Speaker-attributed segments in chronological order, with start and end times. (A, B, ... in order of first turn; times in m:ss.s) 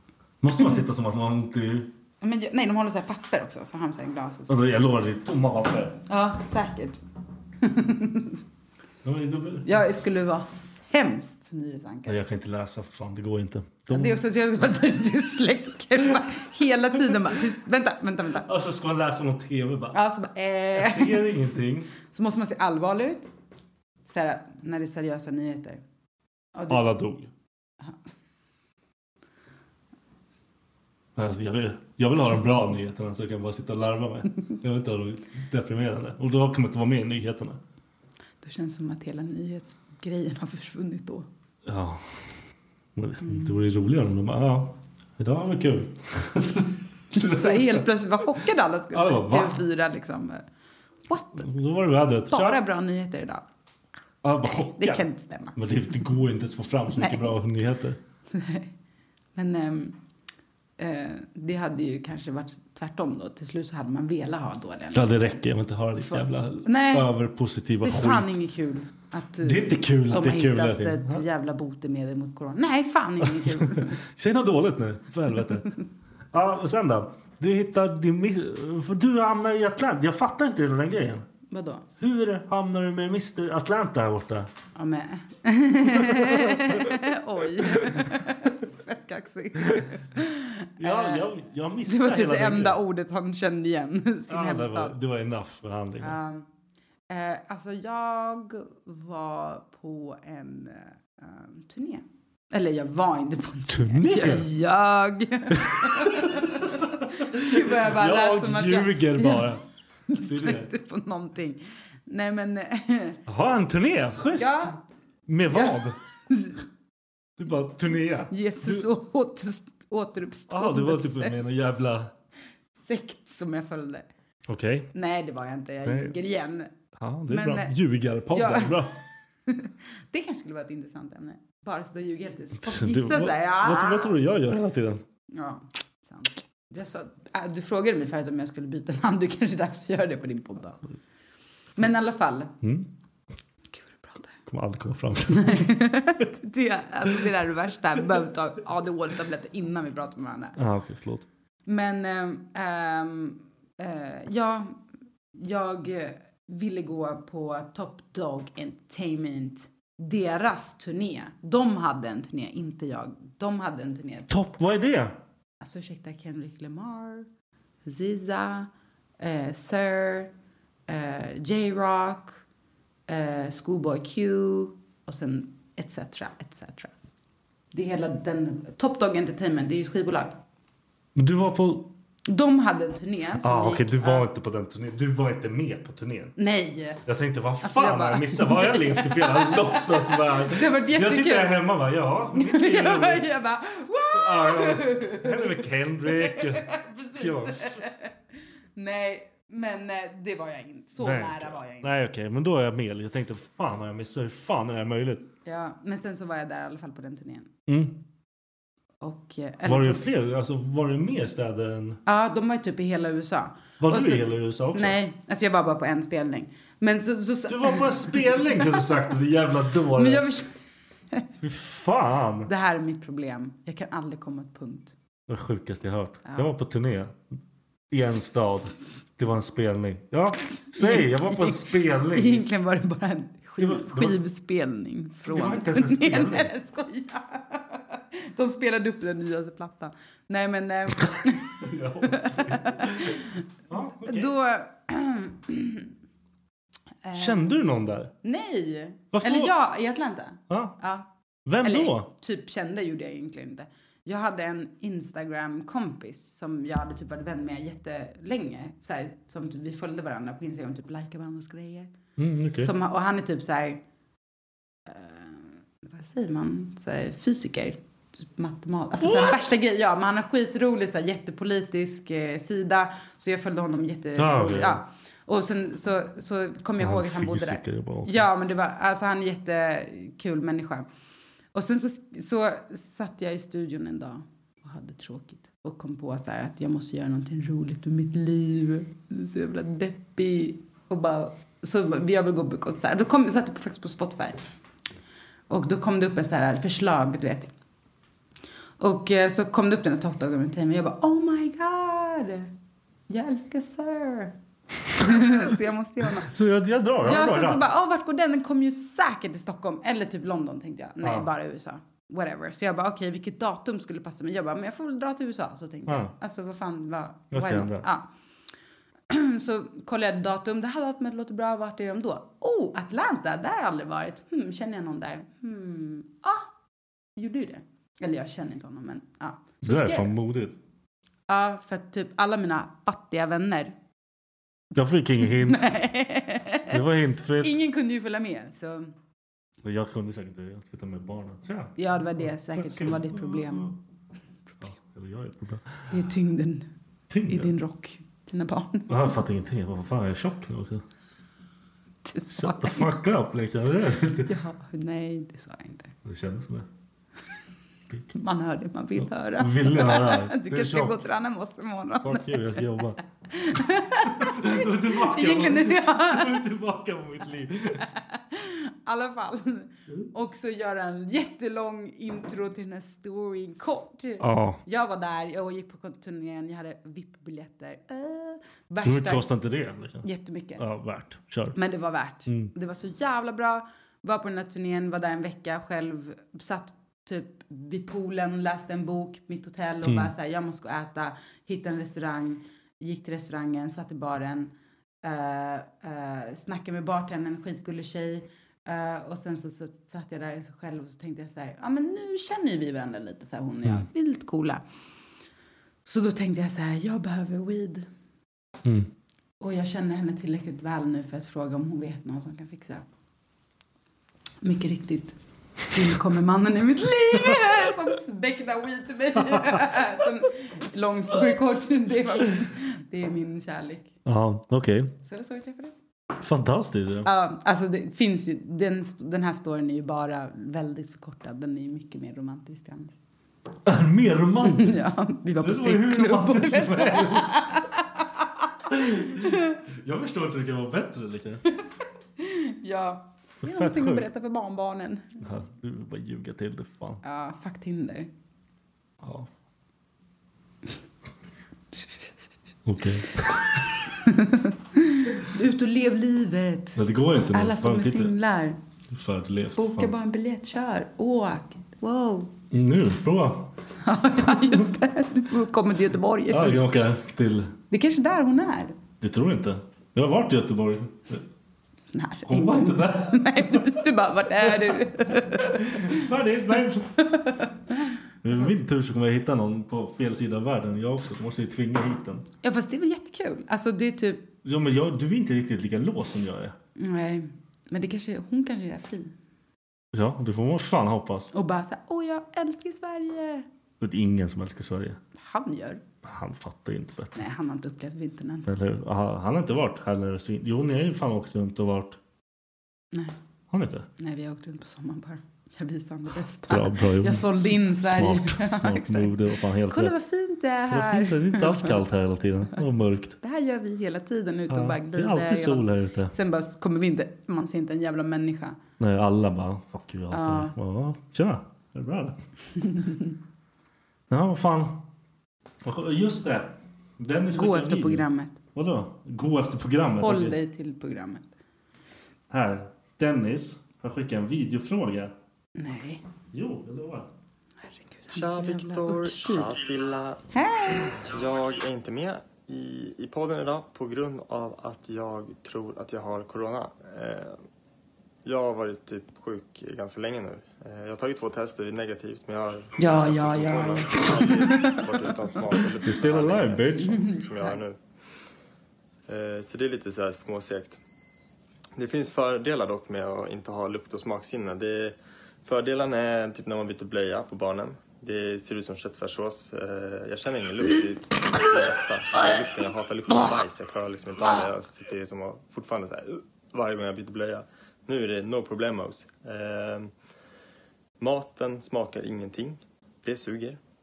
0:00.4-0:01.9 A
0:02.2-0:04.8 B
0:04.5-0:06.0 A
0:06.1-0:07.0 B
0:07.6-0:08.4 B
0:09.0-0:09.7 A
0:09.6-0:12.2 B
0:12.1-0:14.2 A
0:13.9-0:18.5 B
0:18.4-0:20.0 A
0:19.9-0:21.2 B
0:20.8-0:21.9 A
0:22.0-0:23.3 B
0:24.1-0:25.8 B
0:26.6-0:26.8 B
0:26.7-0:27.3 A
0:31.2-0:37.6 A
0:38.4-0:41.3 B
0:41.7-0:42.2 A
0:43.0-0:47.8 A
0:43.2-0:43.6 B
0:47.1-0:50.4 B
0:48.9-0:49.6 A
0:51.1-0:51.4 B
0:51.4-0:52.6 A
0:52.3-0:53.4 B
0:54.2-0:58.0 A
0:54.4-0:55.6 B
0:56.9-0:57.4 B
0:58.3-0:58.7 B
0:59.4-1:00.0 B
1:00.8-1:05.2 B
1:04.9-1:08.3 A
1:06.0-1:07.1 B
1:07.8-1:14.0 B
1:09.4-1:11.2 A
1:13.3-1:15.7 A
1:16.3-1:21.3 A
1:21.5-1:21.8 B
1:22.0-1:24.5 A
1:24.8-1:31.3 B
1:25.9-1:26.8 A
1:30.8-1:32.8 A
1:31.8-1:35.0 B
1:34.3-1:36.2 A
1:36.0-1:36.5 B
1:37.1-1:49.5 B
1:43.7-1:44.5 A
1:45.6-1:49.6 A
1:50.1-1:53.2 B
1:50.2-1:50.7 A
1:53.3-1:54.7 A
1:54.4-1:54.8 B
1:55.3-1:56.0 A
1:55.5-1:55.8 B
1:56.3-1:56.6 B
1:57.4-1:58.9 A
1:58.3-2:01.4 B
2:00.5-2:02.1 A
2:02.8-2:04.1 B
2:04.5-2:04.9 A
2:04.9-2:06.7 B
2:05.8-2:06.1 A
2:07.0-2:09.0 A
2:07.3-2:07.7 B
2:08.3-2:08.8 B
2:09.5-2:14.1 B
2:12.6-2:15.0 A
2:15.3-2:20.8 B
2:21.8-2:22.5 B
2:22.6-2:22.9 A
2:23.7-2:24.3 B
2:24.5-2:25.8 A
2:25.4-2:30.6 B
2:30.6-2:31.3 A
2:31.7-2:34.8 B
2:35.4-2:44.4 B
2:44.3-2:45.2 A
2:45.6-2:47.3 B
2:47.9-2:50.3 B
2:50.9-2:52.4 B
2:53.1-2:56.9 B
2:57.7-3:00.4 B
3:01.2-3:01.9 A
3:02.3-3:04.3 B
3:03.4-3:06.4 A
3:06.4-3:07.0 B
3:07.0-3:13.3 A
3:07.6-3:11.6 B
3:12.3-3:18.1 B
3:14.1-3:17.8 A
3:18.8-3:21.9 B
3:21.0-3:25.3 A
3:25.4-3:27.5 B
3:27.7-3:28.0 A
3:29.0-3:30.0 B
3:29.7-3:32.0 A
3:32.1-3:38.8 B
3:33.8-3:35.0 A
3:37.5-3:40.3 A
3:40.0-3:40.5 B
3:41.4-3:42.5 A
3:42.5-3:45.0 B
3:45.3-3:47.2 A
3:47.9-3:52.4 A
3:50.6-4:03.4 B
3:53.6-3:54.2 A
3:55.2-3:56.5 A
4:01.1-4:04.3 A
4:04.0-4:05.9 B
4:07.0-4:07.6 B
4:07.1-4:08.1 A
4:08.2-4:11.1 B
4:09.1-4:09.5 A
4:10.5-4:10.8 A
4:11.5-4:12.1 A
4:11.6-4:21.9 B
4:22.2-4:22.7 A
4:22.6-4:23.8 B
4:24.9-4:40.9 B
4:29.0-4:29.4 A
4:34.2-4:34.8 A
4:36.8-4:38.2 A
4:41.5-4:54.5 B
4:55.5-4:57.5 B
4:58.8-5:02.5 B
5:03.1-5:04.3 B
5:05.0-5:06.3 B
5:06.2-5:07.6 A
5:07.0-5:18.1 B
5:15.9-5:16.1 A
5:17.3-5:17.9 A
5:19.1-5:26.5 B
5:27.2-5:30.1 B
5:29.6-5:30.6 A
5:31.3-5:33.8 B
5:34.7-5:35.7 A
5:35.2-5:36.8 B
5:36.7-5:37.5 A
5:37.4-5:38.9 B
5:39.6-5:43.8 A
5:41.8-5:43.7 B
5:44.6-5:46.0 A
5:45.9-5:46.7 B
5:47.1-5:47.5 A
5:47.3-5:49.1 B
5:48.9-5:50.8 A
5:52.0-5:53.0 B
5:52.3-5:54.3 A
5:54.3-5:55.9 B
5:56.0-5:56.7 A
5:58.1-6:02.8 B
5:59.0-6:01.0 A
6:02.0-6:03.0 A
6:03.3-6:06.4 B
6:04.1-6:07.9 A
6:07.9-6:19.2 B
6:14.2-6:14.6 A
6:18.8-6:20.1 A
6:20.0-6:20.6 B
6:20.6-6:21.6 A
6:21.6-6:44.6 B
6:22.3-6:22.5 A
6:29.8-6:30.1 A
6:45.8-6:47.9 B
6:48.6-6:48.9 A
6:49.4-6:52.8 B
6:54.4-6:55.1 B
6:55.7-7:03.9 B
6:59.3-6:59.7 A
7:04.1-7:04.9 A
7:05.0-7:05.8 B
7:06.2-7:07.1 A
7:07.0-7:13.0 B
7:13.7-7:14.9 A
7:14.4-7:18.3 B
7:15.4-7:17.6 A
7:18.7-7:21.4 A
7:19.0-7:19.5 B
7:22.2-7:25.2 B
7:23.4-7:24.1 A
7:25.2-7:27.0 A
7:27.0-7:28.1 B
7:29.0-7:29.3 A
7:32.6-7:33.7 A
7:34.0-7:36.8 B
7:36.8-7:38.1 A
7:37.3-7:38.6 B
7:38.9-7:39.9 A
7:39.6-7:42.3 B
7:42.5-7:43.5 A
7:43.8-7:46.6 B
7:44.3-7:44.6 A
7:46.3-7:47.5 A
7:47.7-7:48.8 B
7:49.0-7:51.2 A
7:51.9-7:56.0 B
7:52.3-7:53.7 A
7:54.6-7:57.0 A
7:57.0-7:57.9 B
7:58.2-8:02.3 A
8:02.4-8:04.3 B
8:04.4-8:06.6 A
8:06.8-8:09.1 B
8:09.9-8:11.3 A
8:11.3-8:13.5 B
8:13.8-8:15.0 A
8:15.2-8:15.8 B
8:16.0-8:17.2 A
8:17.2-8:18.5 B
8:18.5-8:22.0 A
8:23.5-8:23.9 A
8:24.0-8:29.1 B
8:26.5-8:30.0 A
8:29.7-8:31.8 B
8:30.7-8:33.2 A
8:33.2-8:38.6 B
8:34.5-8:36.1 A
8:38.8-8:42.2 A
8:40.1-8:40.5 B
8:44.1-8:44.8 A
8:45.6-8:50.4 A
8:47.3-8:48.4 B
8:50.0-8:51.3 B
8:52.3-8:55.1 A
8:55.6-8:56.0 B
8:56.3-8:57.1 A
8:57.7-8:59.6 B
8:58.1-9:00.2 C
9:00.3-9:01.0 B
9:01.0-9:07.4 C
9:08.2-9:17.8 C
9:12.8-9:14.9 B
9:15.8-9:17.1 A
9:16.8-9:17.6 B
9:19.1-9:20.8 C
9:21.8-9:39.9 C
9:41.0-9:43.6 C